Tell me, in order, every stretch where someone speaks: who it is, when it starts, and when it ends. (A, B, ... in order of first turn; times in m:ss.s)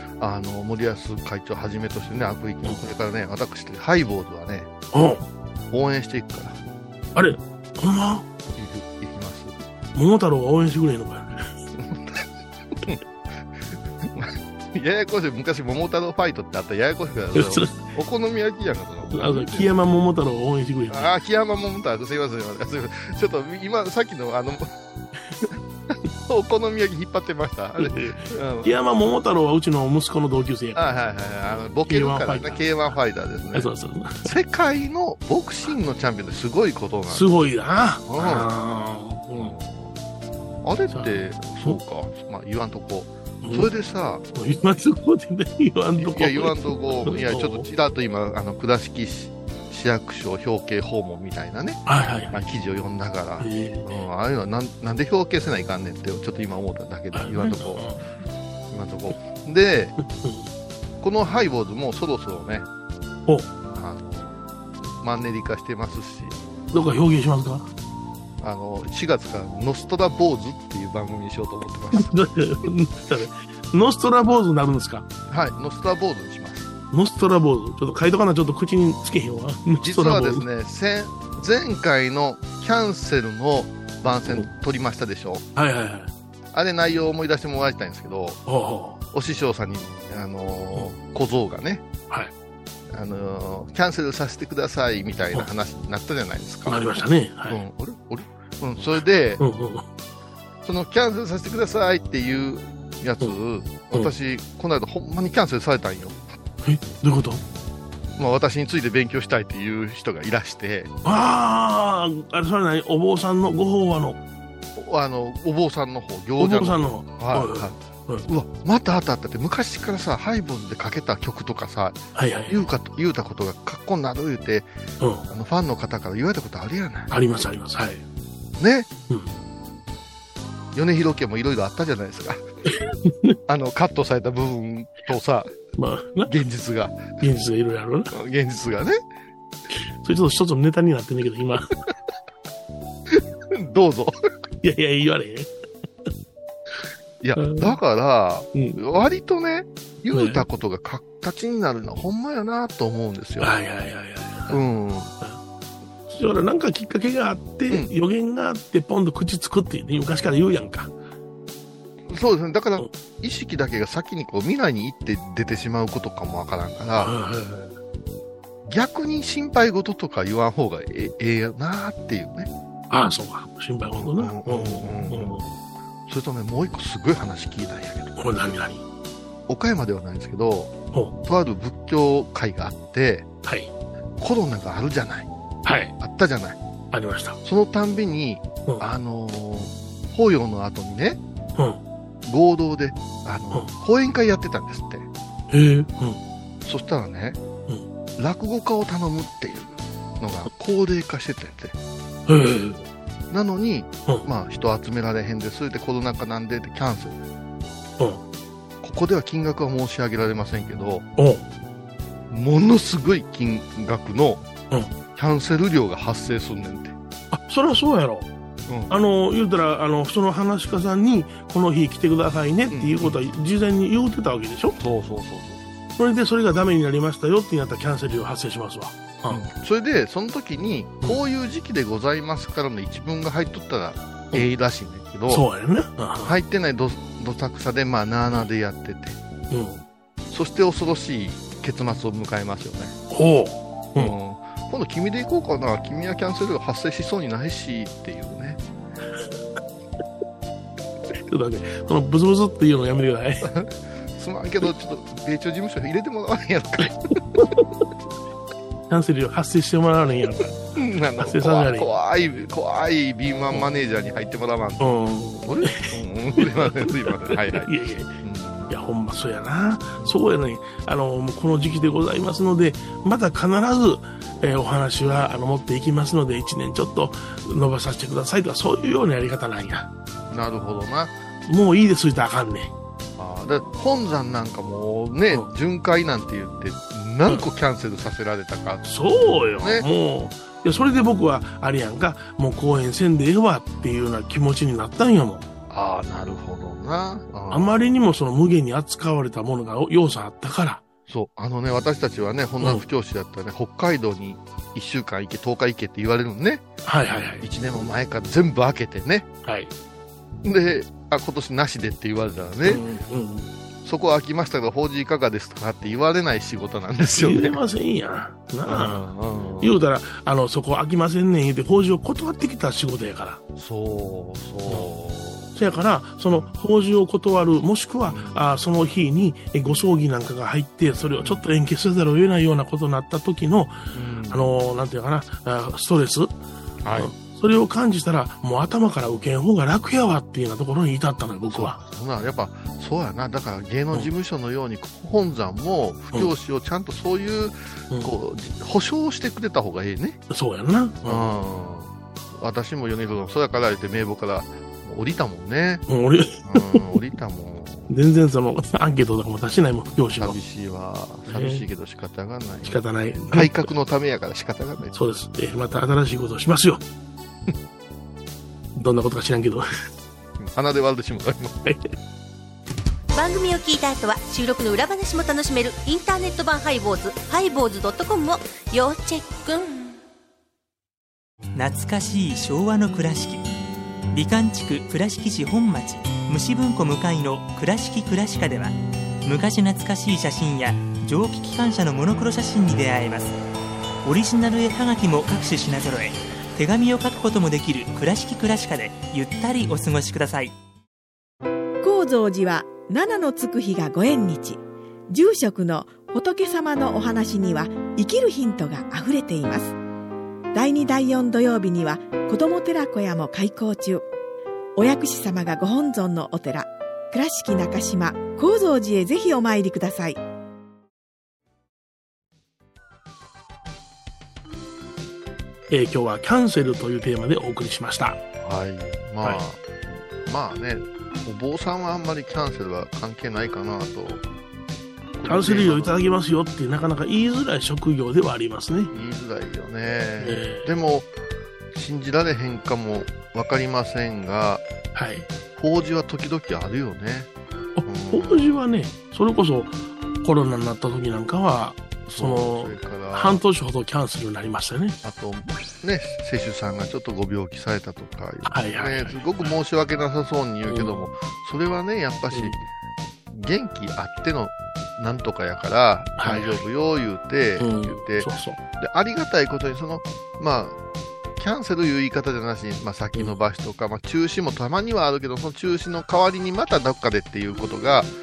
0:00.2-0:04.7 A
0:02.6-0:02.9 B
0:04.9-0:05.2 B
0:05.7-0:06.6 A
0:07.2-0:08.3 B
0:08.6-0:09.6 A
0:10.0-0:11.3 B
0:11.8-0:12.3 A
0:14.0-0:19.7 A
0:17.3-0:17.8 B
0:19.1-0:21.1 B
0:20.9-0:24.7 A
0:25.9-0:28.7 A
0:27.8-0:30.8 B
0:30.8-0:33.7 A
0:31.9-0:32.6 B
0:33.5-0:34.3 B
0:34.2-0:37.3 A
0:37.1-0:39.6 B
0:38.1-0:38.5 A
0:39.4-0:40.0 A
0:40.6-0:44.2 A
0:40.9-0:41.8 B
0:43.4-0:43.7 B
0:44.4-0:47.7 B
0:46.0-0:57.9 A
0:51.9-0:52.4 B
0:53.4-0:53.9 B
0:57.1-0:58.0 B
0:58.7-1:00.0 A
1:00.0-1:00.5 B
1:01.0-1:02.7 A
1:03.7-1:04.4 A
1:05.0-1:06.4 A
1:06.7-1:07.7 B
1:08.4-1:12.2 A
1:11.9-1:15.1 B
1:15.3-1:16.7 A
1:16.9-1:20.5 B
1:19.8-1:25.5 A
1:25.6-1:26.1 B
1:26.5-1:28.4 A
1:28.5-1:29.0 B
1:29.1-1:31.8 A
1:32.9-1:36.9 A
1:36.7-1:37.6 B
1:37.5-1:39.4 A
1:39.4-1:39.8 B
1:40.6-1:46.3 A
1:46.6-1:47.4 B
1:48.2-1:50.9 A
1:51.0-1:54.2 B
1:54.8-2:04.7 A
1:56.4-1:58.3 B
2:02.2-2:02.6 B
2:05.0-2:05.2 B
2:05.3-2:07.1 A
2:07.1-2:08.0 B
2:08.6-2:08.9 A
2:10.7-2:12.4 A
2:12.7-2:13.4 B
2:13.5-2:15.5 A
2:15.8-2:16.3 B
2:16.2-2:17.2 A
2:17.2-2:18.1 B
2:18.1-2:19.0 A
2:20.0-2:21.8 B
2:23.1-2:24.2 A
2:24.6-2:25.5 B
2:27.2-2:33.5 A
2:27.4-2:27.8 B
2:30.1-2:30.4 B
2:33.4-2:34.6 B
2:34.5-2:35.1 A
2:36.1-2:40.9 B
2:42.1-2:47.1 A
2:47.0-2:47.8 B
2:48.7-2:52.5 A
2:52.9-2:55.5 B
2:53.9-2:55.4 A
2:56.1-2:58.6 A
2:58.2-2:58.8 B
2:59.5-3:03.3 A
3:03.4-3:03.7 B
3:04.2-3:05.3 A
3:05.6-3:05.9 B
3:06.0-3:06.6 A
3:06.9-3:07.4 B
3:07.4-3:11.2 A
3:12.3-3:15.1 A
3:15.5-3:16.2 B
3:16.6-3:17.4 A
3:18.2-3:21.8 A
3:22.3-3:22.8 B
3:23.3-3:27.2 A
3:28.8-3:31.1 A
3:31.2-3:31.4 B
3:32.3-3:34.5 A
3:35.1-3:37.0 A
3:37.3-3:38.3 B
3:38.7-3:39.0 A
3:38.9-3:44.8 B
3:42.7-3:43.2 A
3:44.8-3:45.8 A
3:46.0-3:49.4 B
3:49.3-3:55.4 A
3:55.3-3:56.4 B
3:56.2-3:59.2 A
3:59.5-3:59.8 B
4:00.3-4:03.0 A
4:03.1-4:04.2 B
4:04.0-4:08.6 A
4:11.3-4:13.5 B
4:13.4-4:17.5 A
4:17.4-4:17.7 B
4:18.9-4:20.6 B
4:20.7-4:27.7 A
4:21.2-4:21.9 B
4:24.8-4:28.1 B
4:28.2-4:28.8 A
4:28.7-4:39.9 B
4:40.3-4:41.1 A
4:41.5-4:42.7 B
4:43.2-4:49.9 A
4:48.8-4:55.5 B
4:55.7-4:57.7 A
4:57.5-5:00.8 B
5:01.1-5:06.6 A
5:06.8-5:07.5 B
5:07.4-5:09.3 A
5:09.4-5:09.7 B
5:10.4-5:12.8 A
5:12.6-5:13.5 B
5:13.8-5:17.6 A
5:17.2-5:19.0 B
5:18.7-5:19.8 A
5:19.6-5:23.4 B
5:23.6-5:25.5 A
5:25.6-5:36.3 B
5:26.3-5:26.6 A
5:28.1-5:28.4 A
5:33.9-5:34.5 A
5:36.8-5:37.1 A
5:36.9-5:41.8 B
5:41.5-5:50.2 A
5:50.3-5:51.2 B
5:51.0-5:55.8 A
5:55.9-5:56.8 B
5:56.4-5:57.9 A
5:57.9-6:00.4 B
6:00.2-6:05.0 A
6:01.3-6:01.6 B
6:02.6-6:03.7 B
6:04.9-6:06.8 B
6:08.8-6:09.7 B
6:10.4-6:11.6 A
6:13.1-6:20.0 C
6:21.6-6:23.4 D
6:24.1-6:28.7 D
6:29.2-6:33.4 D
6:34.0-6:40.5 D
6:41.8-6:49.8 E
6:50.5-6:54.0 E
6:54.8-7:00.2 E
7:05.7-7:08.2 B
7:08.4-7:14.2 A
7:15.2-7:16.0 A
7:15.2-7:18.9 B
7:18.9-7:21.1 A
7:20.2-7:20.7 B
7:21.7-7:24.6 A
7:25.0-7:25.3 B
7:25.5-7:27.3 A
7:27.8-7:35.0 B
7:27.8-7:28.6 A
7:32.1-7:33.4 A
7:35.0-7:42.6 A
7:38.4-7:39.5 B
7:40.7-7:41.0 B
7:42.3-7:42.6 B
7:43.3-7:50.8 A
7:46.2-7:46.6 B
7:47.6-7:48.6 B
7:51.4-7:58.1 A